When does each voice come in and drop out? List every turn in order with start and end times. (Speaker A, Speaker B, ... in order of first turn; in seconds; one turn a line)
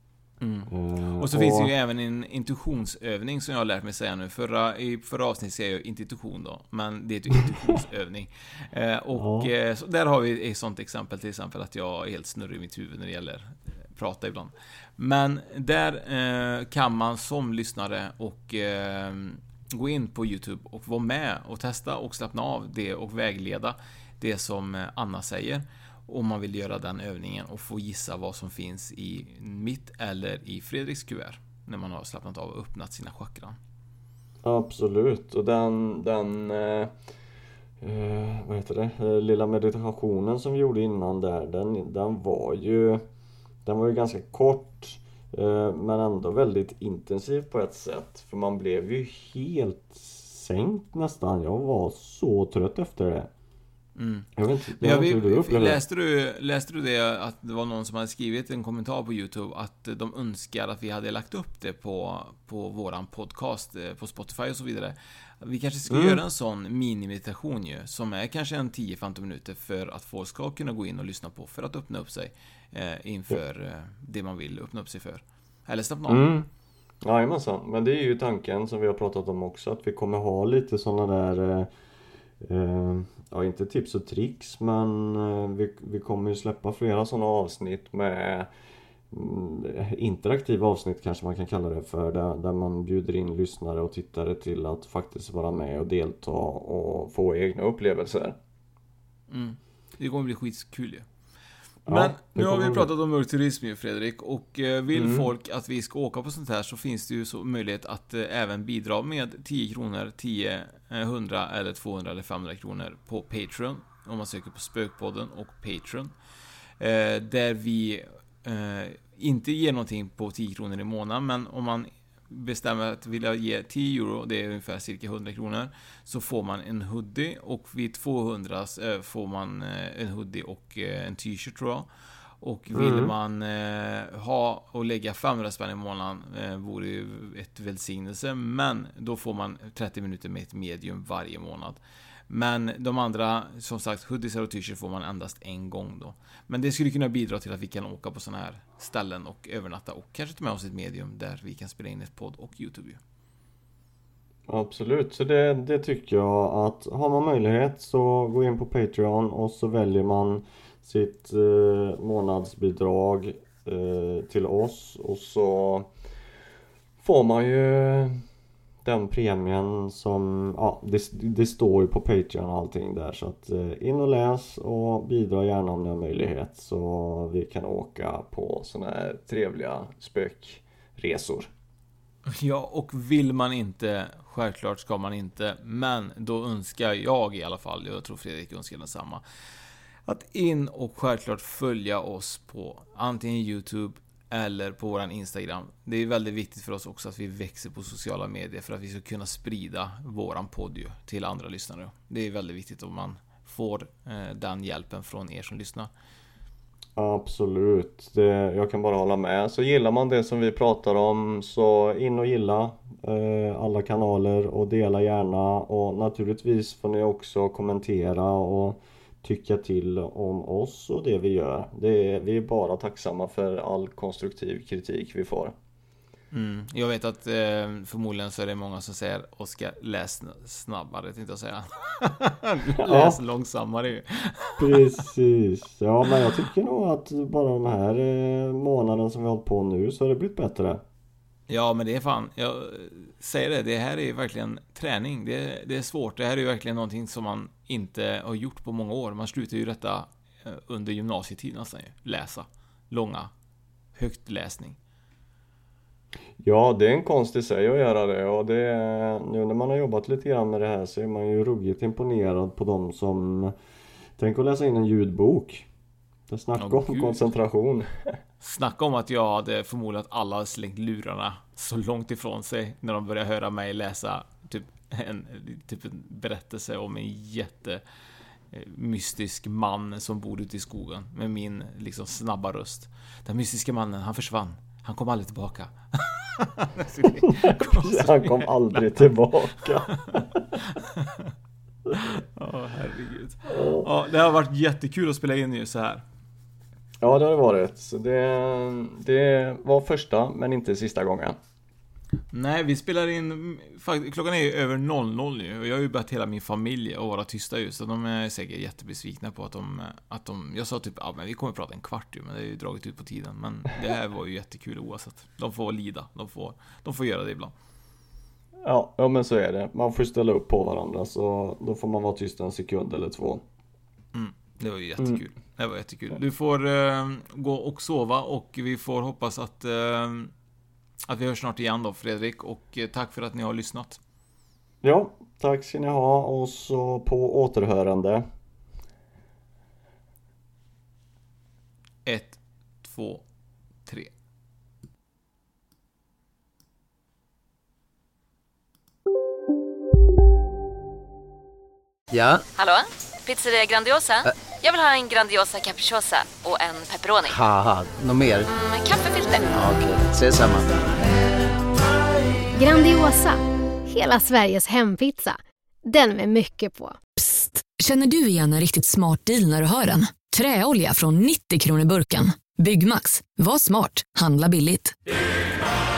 Speaker A: 0.4-33.5
Speaker B: 0.7-1.7
Speaker B: 9.1-9.5
Speaker B: 34.4-36.9
Speaker B: 37.8-43.0
Speaker B: 43.6-53.3
Speaker A: 54.0-76.3
Speaker B: 54.4-55.8
Speaker B: 65.9-66.2
Speaker B: 76.1-76.5
Speaker B: 77.0-81.7
Speaker B: 82.4-88.5
Speaker B: 89.1-98.3
Speaker A: 99.3-101.0
Speaker B: 101.8-102.9
Speaker A: 101.9-116.1
Speaker B: 104.9-105.3
Speaker A: 116.8-131.9
Speaker A: 132.4-153.0
Speaker B: 132.7-133.1
Speaker B: 154.5-165.9
Speaker B: 167.0-168.2
Speaker B: 168.8-181.5
Speaker A: 182.3-189.2
Speaker A: 190.1-205.9
Speaker B: 206.9-225.5
Speaker A: 226.3-234.8
Speaker B: 232.8-233.2
Speaker B: 234.6-240.8
Speaker A: 241.5-253.3
Speaker A: 253.9-254.8
Speaker B: 256.4-263.5
Speaker B: 264.2-265.6
Speaker B: 266.3-268.1
Speaker A: 266.6-267.2
Speaker A: 268.4-277.8
Speaker A: 278.5-291.3
Speaker B: 287.2-290.6
Speaker B: 291.9-292.1
Speaker A: 291.9-296.0
Speaker B: 293.5-293.9
Speaker B: 297.0-301.4
Speaker A: 302.3-317.5
Speaker B: 318.6-323.4
Speaker A: 324.1-330.3
Speaker A: 331.1-334.0
Speaker B: 334.8-338.2
Speaker A: 342.1-343.2
Speaker C: 352.1-352.4
Speaker D: 352.6-357.4
Speaker C: 357.3-358.5
Speaker D: 358.5-359.5
Speaker C: 359.5-360.8
Speaker E: 362.6-367.0
Speaker F: 367.2-374.9